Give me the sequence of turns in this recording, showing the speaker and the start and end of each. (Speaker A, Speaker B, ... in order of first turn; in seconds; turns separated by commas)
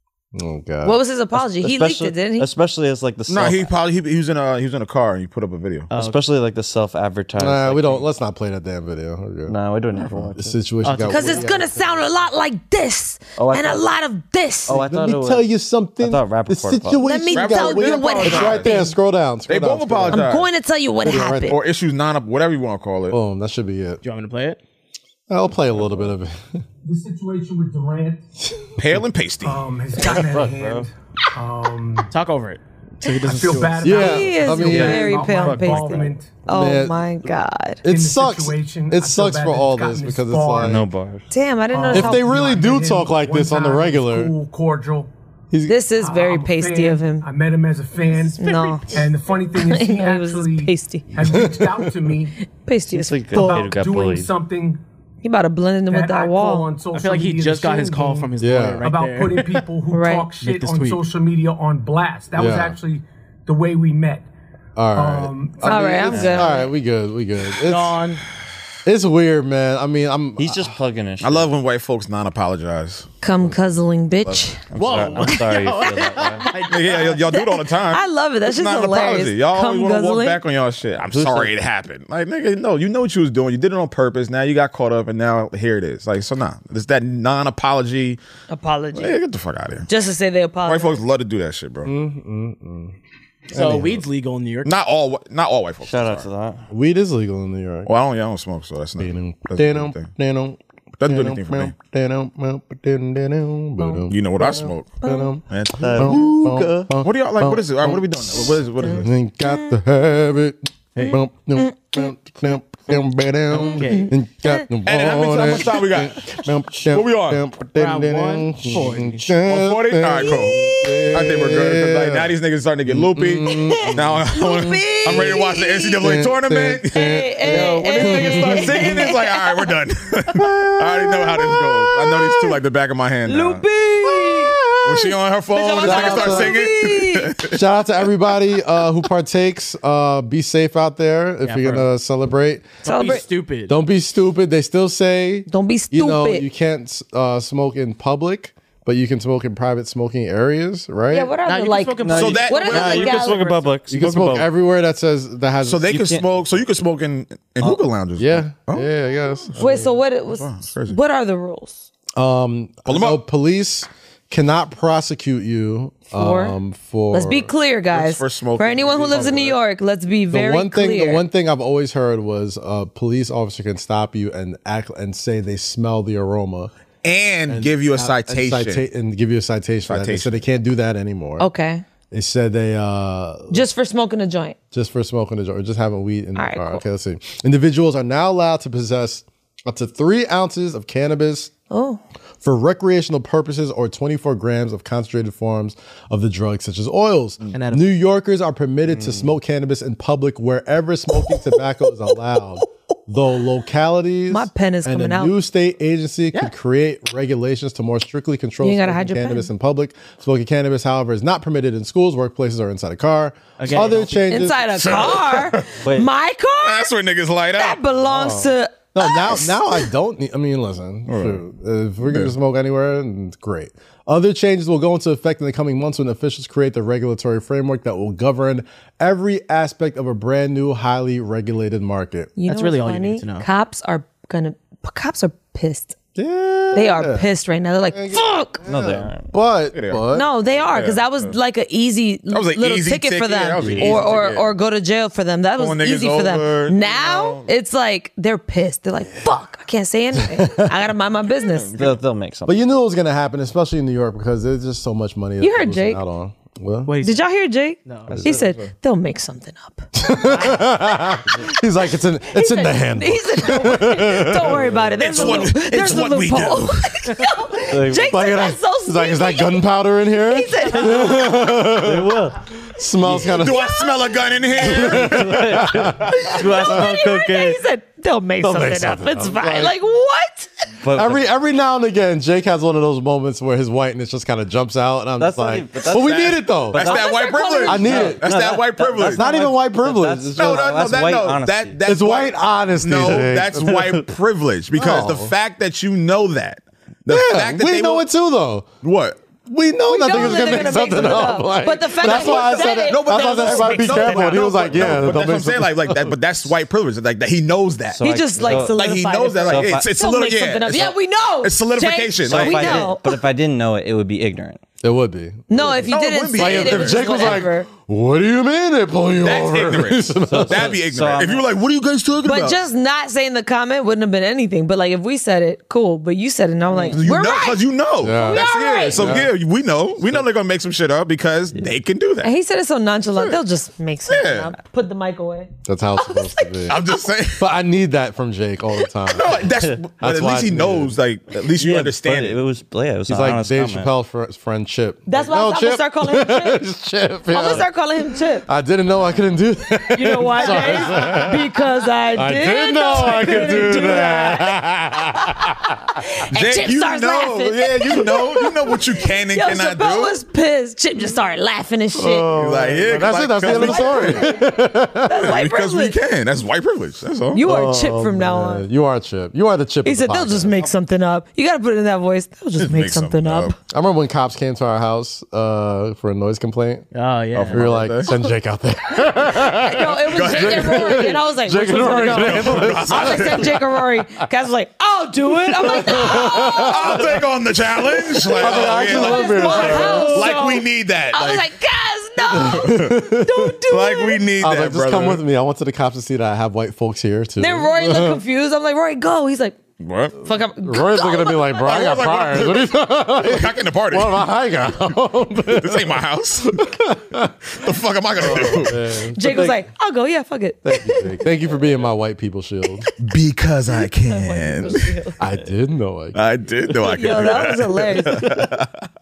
Speaker A: 0.3-1.0, Speaker B: 0.8-2.5, Speaker C: 1.4-3.7, Speaker D: 3.3-5.9, Speaker E: 5.9-6.2, Speaker C: 5.9-8.0, Speaker A: 7.4-12.0, Speaker C: 9.4-10.6, Speaker E: 10.8-11.5, Speaker B: 11.1-14.8, Speaker C: 13.3-13.9, Speaker C: 14.7-17.1, Speaker A: 14.7-20.3, Speaker B: 17.0-18.9, Speaker D: 17.3-18.8, Speaker D: 19.5-20.5, Speaker B: 20.1-21.6, Speaker A: 21.0-21.6, Speaker D: 21.4-23.2, Speaker A: 23.1-24.0, Speaker E: 24.0-24.6, Speaker A: 25.3-26.4, Speaker F: 26.8-28.2, Speaker D: 28.8-29.7, Speaker F: 29.4-32.1, Speaker C: 29.9-30.9, Speaker E: 32.1-33.9, Speaker F: 33.2-36.4, Speaker A: 33.8-35.2, Speaker B: 33.9-37.8, Speaker C: 34.6-36.1, Speaker A: 36.5-37.0, Speaker A: 37.8-40.9, Speaker F: 37.9-40.8, Speaker C: 40.6-41.3, Speaker B: 41.3-42.3, Speaker F: 41.7-45.1, Speaker A: 41.9-44.3, Speaker A: 45.5-45.8, Speaker B: 45.6-47.3, Speaker F: 45.9-52.3, Speaker B: 48.4-49.0, Speaker B: 49.6-51.1, Speaker A: 51.2-51.9, Speaker B: 52.5-53.7, Speaker C: 52.9-54.3, Speaker F: 53.3-54.8, Speaker B: 55.2-56.7, Speaker F: 55.9-64.3, Speaker E: 56.9-59.6, Speaker A: 58.4-58.9, Speaker B: 59.9-60.3, Speaker E: 60.4-61.0, Speaker A: 62.3-62.8, Speaker A: 64.8-68.0, Speaker F: 64.9-66.3, Speaker B: 65.6-66.7, Speaker C: 66.0-66.5, Speaker E: 67.6-68.2, Speaker A: 68.8-70.7, Speaker C: 70.4-71.5, Speaker D: 71.2-73.1, Speaker B: 73.2-74.6, Speaker D: 74.2-75.3, Speaker C: 74.7-76.6, Speaker E: 74.8-77.2, Speaker D: 76.7-88.2, Speaker B: 77.3-80.4, Speaker C: 81.1-81.5, Speaker B: 88.5-89.2, Speaker D: 88.9-89.9, Speaker B: 89.9-91.0, Speaker D: 90.6-91.9, Speaker A: 91.8-92.9, Speaker A: 93.5-94.0, Speaker E: 93.5-94.7, Speaker D: 93.6-93.8, Speaker D: 94.6-96.3, Speaker C: 95.8-96.6, Speaker A: 96.7-97.9, Speaker D: 97.8-100.1, Speaker A: 99.0-108.1, Speaker D: 101.0-101.7, Speaker B: 103.8-104.0, Speaker D: 104.1-104.9, Speaker B: 105.0-105.3, Speaker D: 105.5-106.2, Speaker C: 105.8-106.9, Speaker D: 107.0-109.1, Speaker B: 108.8-109.7, Speaker A: 108.9-122.3, Speaker E: 113.5-114.1, Speaker D: 114.8-116.2, Speaker D: 116.9-117.4, Speaker E: 117.8-119.3, Speaker D: 119.5-133.6, Speaker A: 122.8-124.3, Speaker B: 123.4-126.0, Speaker A: 125.1-125.4, Speaker A: 126.0-129.1, Speaker B: 126.9-129.7, Speaker A: 130.3-132.3, Speaker B: 133.2-134.6, Speaker A: 134.0-135.2, Speaker D: 134.8-137.6, Speaker B: 135.5-137.3, Speaker A: 135.8-136.7, Speaker A: 137.5-151.3, Speaker E: 141.4-141.9, Speaker E: 142.8-143.8, Speaker B: 142.8-143.2, Speaker B: 145.5-146.4, Speaker B: 151.1-153.7, Speaker E: 151.4-153.3, Speaker C: 152.0-154.5, Speaker D: 152.1-153.3, Speaker A: 153.9-156.0, Speaker D: 155.6-158.9, Speaker C: 155.9-156.3, Speaker A: 158.2-159.9, Speaker D: 159.4-161.0, Speaker B: 159.6-161.9, Speaker A: 162.1-167.5, Speaker D: 162.9-163.2, Speaker B: 166.1-166.6, Speaker B: 167.1-171.2, Speaker D: 167.9-169.6, Speaker A: 170.3-176.7, Speaker D: 177.0-178.8, Speaker A: 177.5-181.5, Speaker D: 179.9-180.4, Speaker B: 181.4-181.8, Speaker A: 182.1-183.7, Speaker B: 183.5-184.6, Speaker A: 184.7-191.5, Speaker B: 186.3-186.8, Speaker B: 191.7-192.0, Speaker A: 192.4-214.9, Speaker E: 197.5-197.9, Speaker C: 198.9-199.3, Speaker B: 204.3-205.3, Speaker B: 208.6-209.5, Speaker E: 213.6-214.2, Speaker B: 214.3-216.9, Speaker D: 214.8-215.7, Speaker C: 215.8-216.1, Speaker D: 216.6-217.8, Speaker B: 217.5-219.9, Speaker A: 218.1-232.3, Speaker D: 221.1-221.4, Speaker D: 222.0-222.3, Speaker B: 232.4-235.9, Speaker E: 232.5-233.5, Speaker A: 236.2-237.3, Speaker B: 236.7-238.6, Speaker A: 237.9-240.3, Speaker C: 238.6-239.3, Speaker D: 239.7-241.3, Speaker B: 240.1-251.7, Speaker D: 242.3-244.5, Speaker C: 243.6-244.0, Speaker A: 243.6-243.9, Speaker D: 245.6-247.4, Speaker A: 250.2-250.8, Speaker D: 251.4-252.1, Speaker C: 251.7-252.6, Speaker A: 252.4-256.9, Speaker B: 255.4-256.0, Speaker E: 256.9-257.3, Speaker B: 257.0-261.0, Speaker E: 257.8-258.1, Speaker D: 258.1-258.7, Speaker A: 259.9-264.7, Speaker B: 262.3-271.5, Speaker C: 264.7-265.4, Speaker D: 265.0-266.9, Speaker C: 267.7-268.3, Speaker A: 268.0-273.8, Speaker C: 270.9-272.4, Speaker D: 273.0-275.5, Speaker B: 273.6-273.9, Speaker A: 274.6-276.9, Speaker C: 274.8-277.6, Speaker B: 276.1-280.5, Speaker A: 278.4-279.7, Speaker C: 280.8-281.2, Speaker A: 280.9-286.8, Speaker C: 285.2-291.8, Speaker D: 286.1-289.2, Speaker B: 286.8-288.1, Speaker A: 287.6-288.3, Speaker A: 289.0-290.8, Speaker D: 290.4-298.1, Speaker A: 291.8-293.9, Speaker C: 293.7-294.0, Speaker A: 294.7-295.3, Speaker A: 297.1-298.7, Speaker D: 298.8-299.2, Speaker A: 299.4-306.2, Speaker B: 299.9-304.5, Speaker D: 300.1-300.9, Speaker D: 302.0-312.9, Speaker C: 304.7-305.2, Speaker C: 307.9-308.8, Speaker B: 308.0-313.2, Speaker C: 309.4-309.9, Speaker C: 312.2-314.6, Speaker A: 314.8-320.8, Speaker B: 315.5-317.7, Speaker D: 315.8-317.4, Speaker D: 319.2-322.6, Speaker C: 320.2-321.5, Speaker B: 322.2-329.1, Speaker D: 326.7-332.3, Speaker A: 328.0-329.3, Speaker B: 332.2-337.0, Speaker D: 333.1-333.4, Speaker D: 334.1-334.5, Speaker A: 335.6-336.8, Speaker D: 336.7-337.5, Speaker A: 337.4-341.0, Speaker D: 339.1-342.4, Speaker C: 341.5-343.9, Speaker A: 343.1-347.7, Speaker B: 345.1-346.6, Speaker B: 347.3-348.5, Speaker A: 348.4-351.6, Speaker B: 349.9-358.7, Speaker A: 352.1-355.8, Speaker D: 353.1-353.8, Speaker D: 356.3-360.2, Speaker B: 359.3-362.3, Speaker A: 361.9-365.4, Speaker D: 362.3-364.4, Speaker B: 363.4-366.0, Speaker D: 365.1-367.4, Speaker B: 367.3-368.7, Speaker A: 367.4-370.7, Speaker B: 369.8-373.6, Speaker D: 372.6-373.5, Speaker A: 373.7-376.9, Speaker E: 376.9-377.7, Speaker D: 377.3-378.1, Speaker A: 377.5-384.2, Speaker B: 378.9-387.0, Speaker D: 380.1-381.2, Speaker D: 381.8-383.6, Speaker A: 385.4-387.2, Speaker D: 385.9-391.5, Speaker B: 388.2-394.2, Speaker A: 388.3-390.5, Speaker D: 392.3-393.0, Speaker A: 392.3-393.5, Speaker D: 393.7-395.2, Speaker A: 394.4-398.2, Speaker B: 397.4-399.6, Speaker D: 399.8-400.2, Speaker B: 400.2-401.6, Speaker A: 400.6-407.5, Speaker D: 401.5-404.2, Speaker D: 405.5-406.6, Speaker D: 407.5-408.8, Speaker A: 408.2-409.6, Speaker B: 409.1-411.0, Speaker A: 410.6-412.9, Speaker D: 413.0-415.0, Speaker B: 413.7-415.2, Speaker A: 415.2-417.5, Speaker D: 416.1-418.8, Speaker B: 416.9-418.4